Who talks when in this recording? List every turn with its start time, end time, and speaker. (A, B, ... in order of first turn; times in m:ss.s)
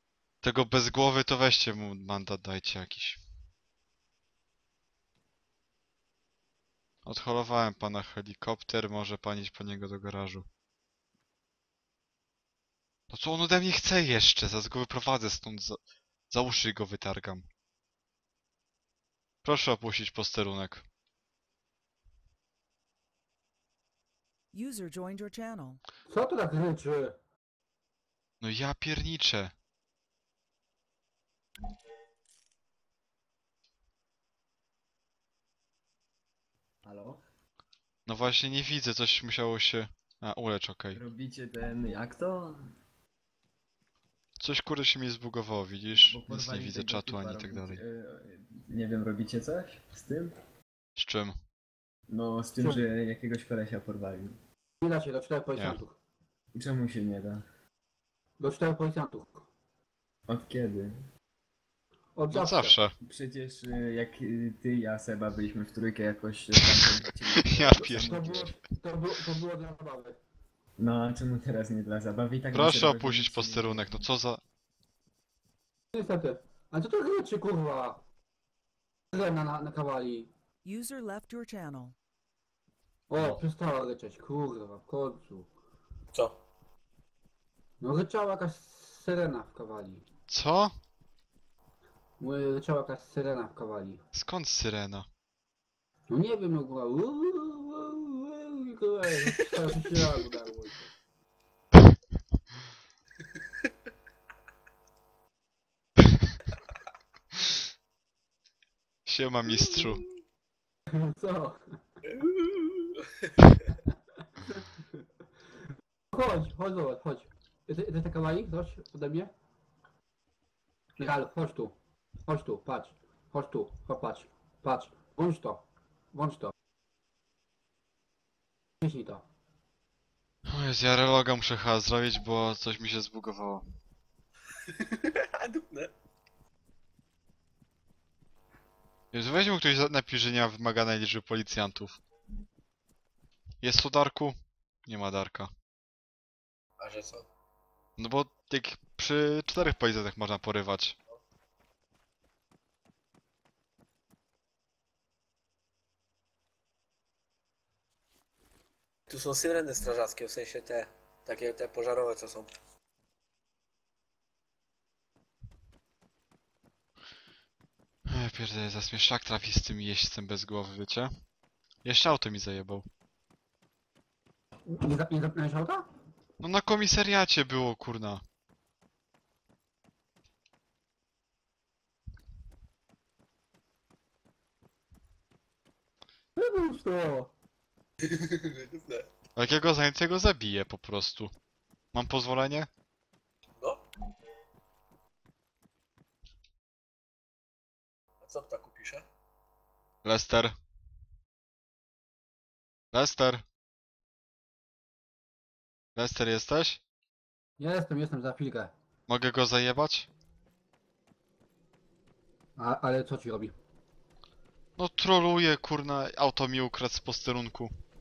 0:00.4-0:03.2 A
0:07.0-0:10.5 A
0:13.1-0:17.5 A
0:19.4-0:20.8 A
0:24.5-0:25.8 B
0:26.1-0:27.2 C
0:28.4-0:29.5 A
0:36.8-0:37.2 D
0:38.1-0:41.0 A
0:40.9-0:42.7 D
0:44.4-0:47.8 A
0:46.0-0:50.4 D
0:51.0-0:51.4 A
0:52.1-0:54.4 D
0:54.8-0:56.0 C
0:56.6-0:57.4 D
0:58.4-0:59.5 C
1:00.3-1:01.0 D
1:02.2-1:02.8 C
1:02.3-1:03.0 A
1:03.0-1:08.5 D
1:06.8-1:08.2 A
1:07.8-1:10.2 C
1:10.8-1:14.1 D
1:12.5-1:14.4 A
1:15.9-1:18.0 C
1:19.1-1:20.3 C
1:20.6-1:22.0 B
1:23.1-1:25.5 C
1:23.1-1:23.4 A
1:27.8-1:30.0 C
1:30.3-1:30.8 A
1:32.2-1:34.0 C
1:34.1-1:35.1 A
1:36.1-1:40.9 C
1:49.1-1:50.0 A
1:50.9-1:51.6 C
1:52.1-1:53.4 E
1:56.1-1:59.3 C
2:01.0-2:01.7 C
2:02.3-2:06.5 C
2:08.8-2:09.2 C
2:10.5-2:13.7 A
2:14.7-2:15.9 E
2:19.1-2:22.0 A
2:23.6-2:25.5 A
2:26.8-2:27.3 E
2:28.0-2:31.0 A
2:39.1-2:42.5 E
2:48.1-2:51.1 A
2:51.8-2:52.9 A
2:54.7-2:55.9 C
2:56.4-2:58.2 A
3:06.4-3:07.3 C
3:08.0-3:09.1 E
3:09.4-3:11.3 A
3:11.9-3:12.7 A
3:13.6-3:13.8 E
3:18.2-3:19.1 E
3:20.0-3:20.6 A
3:22.9-3:23.4 A
3:26.0-3:26.8 A
3:27.6-3:28.7 C
3:29.1-3:30.1 A
3:32.6-3:33.6 C
3:34.8-3:37.7 A